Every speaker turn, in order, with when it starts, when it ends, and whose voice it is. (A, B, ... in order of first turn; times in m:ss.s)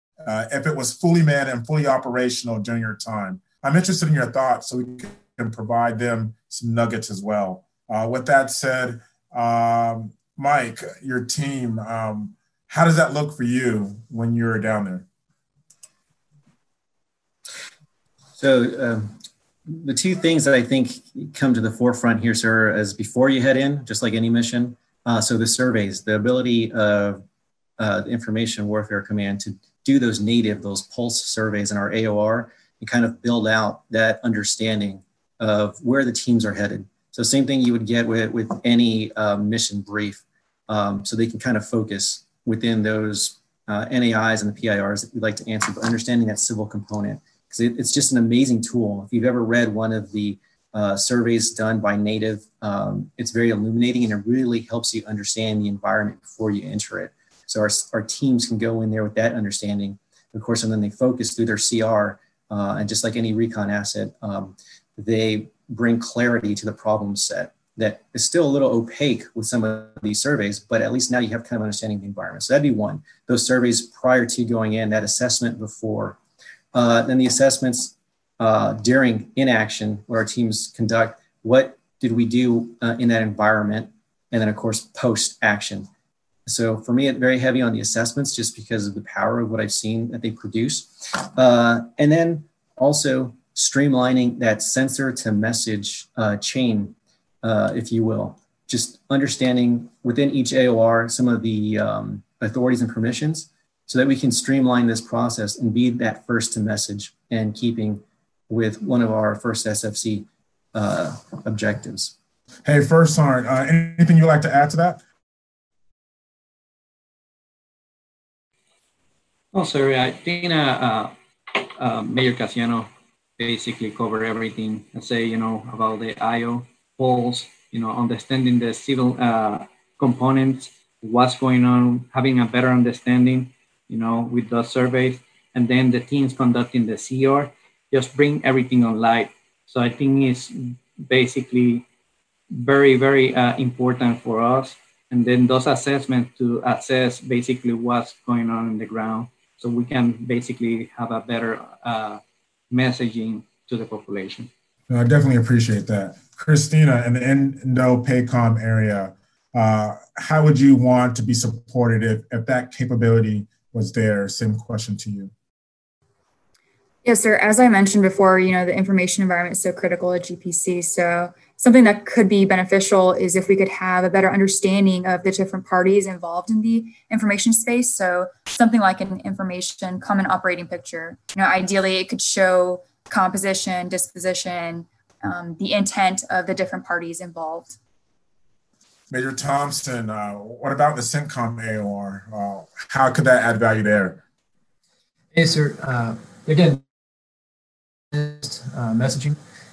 0:00.2-0:15.0 A
0:18.4-0:19.1 B
0:19.7-0:27.2 B
0:27.8-1:16.2 B
1:16.7-1:25.9 B
1:26.5-1:52.1 B
1:52.6-1:55.0 A
1:59.5-2:21.9 C
2:22.5-2:34.5 C
2:34.9-2:45.3 A
2:47.0-3:07.8 D
3:09.1-3:14.2 A
3:15.3-3:16.8 E
3:18.1-3:19.4 E